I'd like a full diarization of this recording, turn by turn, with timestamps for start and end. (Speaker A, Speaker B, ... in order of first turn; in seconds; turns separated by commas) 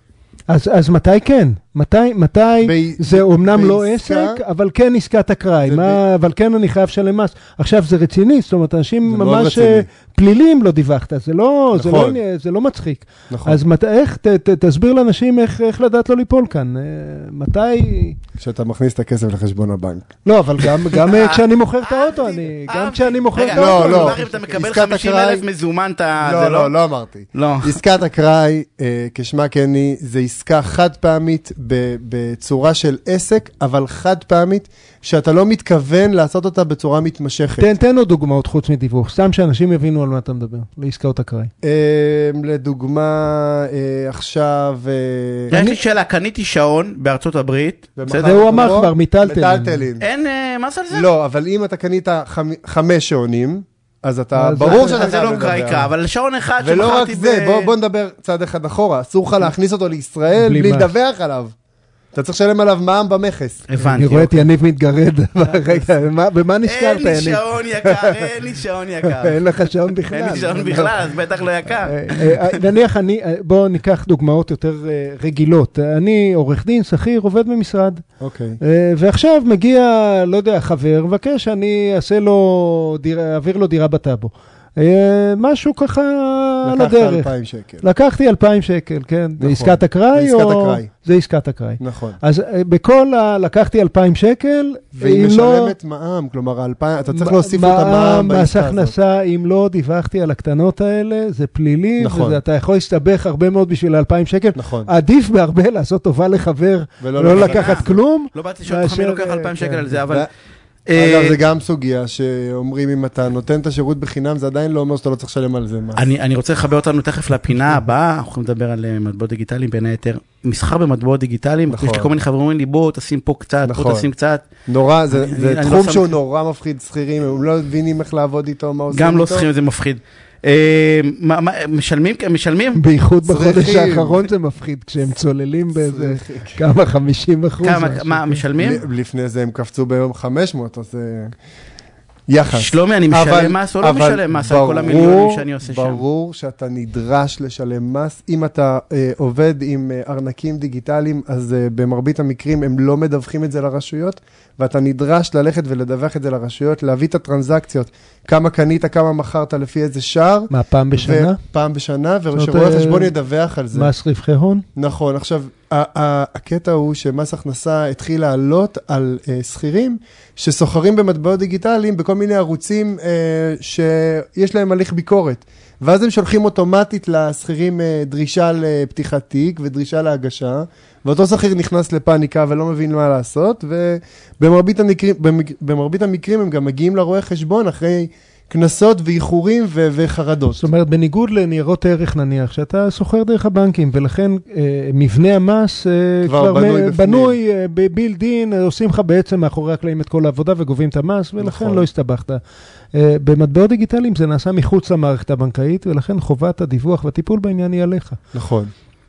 Speaker A: 0.5-18.2, Speaker B: 2.6-4.4, Speaker B: 5.6-6.0, Speaker B: 9.0-9.9, Speaker B: 11.7-12.2, Speaker B: 13.3-13.6, Speaker B: 18.4-20.1, Speaker A: 20.2-24.4, Speaker C: 21.0-26.7, Speaker B: 23.5-25.4, Speaker B: 26.2-37.7, Speaker C: 27.3-27.8, Speaker A: 37.6-41.5, Speaker B: 41.6-45.6, Speaker A: 45.5-45.8, Speaker C: 45.5-48.5, Speaker B: 48.0-50.0, Speaker A: 48.1-49.9, Speaker C: 50.0-51.1, Speaker B: 50.9-55.9, Speaker A: 54.3-55.2, Speaker C: 54.6-57.7, Speaker B: 56.6-61.5, Speaker A: 60.3-60.9, Speaker B: 62.1-63.7, Speaker C: 63.7-64.5, Speaker A: 63.8-68.3, Speaker C: 66.6-69.3, Speaker A: 69.1-71.0, Speaker C: 70.1-72.4, Speaker A: 71.8-78.0, Speaker B: 78.2-78.6, Speaker A: 78.6-87.3, Speaker B: 86.6-87.8, Speaker A: 87.8-95.7, Speaker B: 89.4-90.9, Speaker B: 91.8-92.2, Speaker B: 95.0-98.9, Speaker A: 97.1-110.0, Speaker B: 102.0-102.4, Speaker B: 104.5-104.9, Speaker B: 107.0-108.0, Speaker C: 107.3-110.3, Speaker C: 110.9-111.4, Speaker B: 110.9-116.0, Speaker C: 116.0-124.5, Speaker B: 121.7-122.1, Speaker B: 123.6-124.1, Speaker B: 124.7-129.5, Speaker C: 125.1-126.2, Speaker C: 128.9-132.8, Speaker A: 132.7-138.4, Speaker B: 133.2-134.2, Speaker B: 135.7-136.6, Speaker C: 137.6-138.8, Speaker B: 138.6-141.3, Speaker B: 142.3-163.9, Speaker C: 142.5-146.0, Speaker A: 160.5-161.4, Speaker A: 162.3-163.1, Speaker A: 163.7-164.6, Speaker B: 164.8-190.6, Speaker A: 190.5-202.4, Speaker B: 196.2-197.4, Speaker B: 201.4-201.9, Speaker A: 202.9-208.2, Speaker B: 208.3-208.7